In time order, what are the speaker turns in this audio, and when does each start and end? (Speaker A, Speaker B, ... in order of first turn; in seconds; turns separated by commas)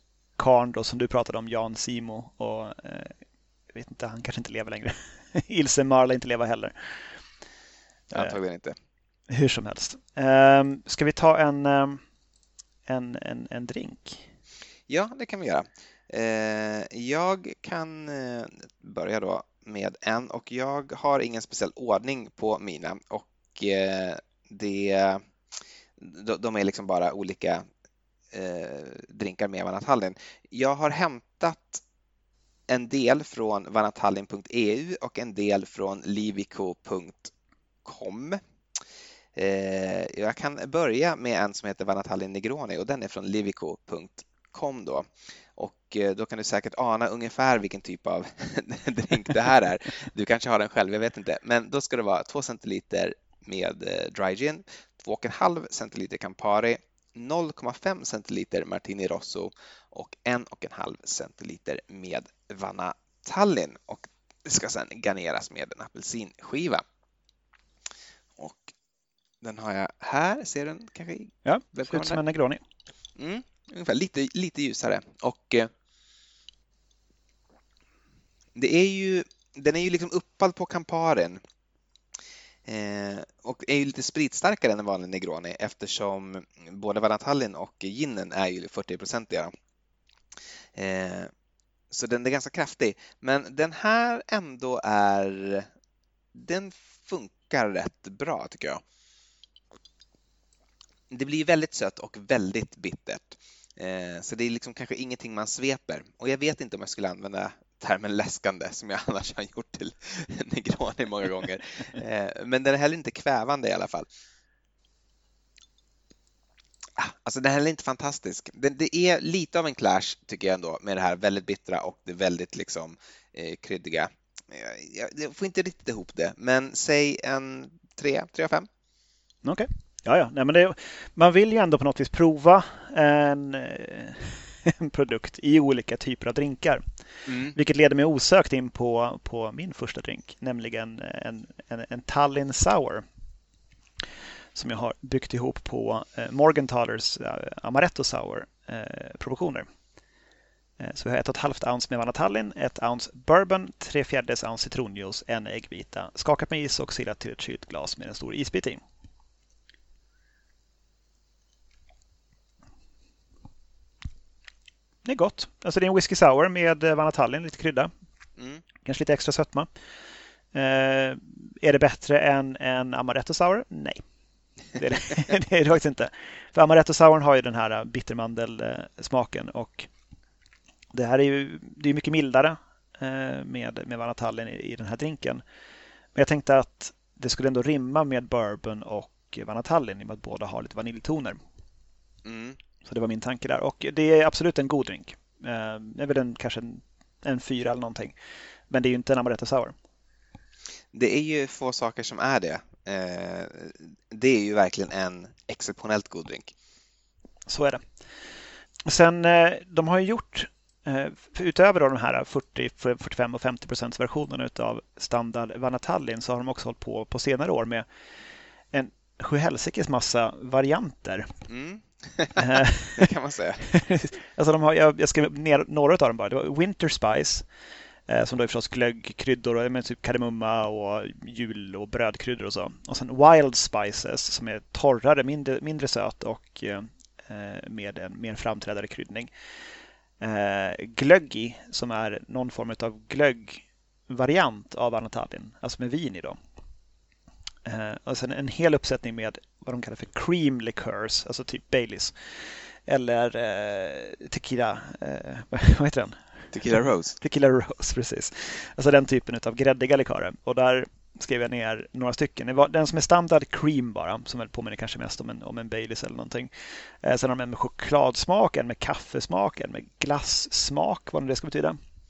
Speaker A: 0.4-3.1, Speaker A: 3.7-6.7, Speaker B: 8.1-8.7, Speaker A: 9.3-12.0, Speaker A: 12.9-14.2, Speaker B: 14.9-25.2, Speaker B: 26.0-27.6, Speaker B: 28.3-31.8, Speaker B: 32.7-37.3, Speaker B: 37.8-38.4, Speaker B: 39.3-66.8, Speaker B: 68.4-68.7, Speaker B: 69.4-72.2, Speaker A: 71.4-72.6, Speaker B: 73.2-75.7, Speaker B: 78.5-81.4, Speaker B: 82.7-89.5, Speaker B: 90.8-91.3, Speaker B: 91.9-95.7, Speaker B: 96.3-98.8, Speaker B: 101.1-114.1, Speaker B: 117.0-128.7, Speaker A: 129.4-136.8, Speaker B: 137.3-137.5, Speaker A: 137.4-143.0, Speaker A: 144.5-149.7, Speaker A: 150.8-158.8, Speaker A: 165.0-167.9, Speaker A: 168.8-169.7, Speaker A: 170.5-174.0, Speaker A: 174.8-179.9, Speaker A: 180.9-185.4, Speaker A: 186.1-191.4, Speaker B: 192.2-192.6, Speaker A: 192.8-198.2, Speaker A: 198.7-199.7, Speaker B: 200.9-206.5, Speaker A: 207.5-207.8, Speaker A: 208.8-217.8, Speaker A: 218.7-221.3, Speaker B: 221.5-223.7, Speaker A: 222.4-223.1, Speaker A: 223.7-227.4, Speaker A: 228.1-239.3, Speaker A: 240.2-246.4, Speaker A: 247.6-252.1, Speaker A: 252.9-256.2, Speaker B: 256.5-257.2, Speaker A: 257.2-266.5, Speaker A: 267.0-271.8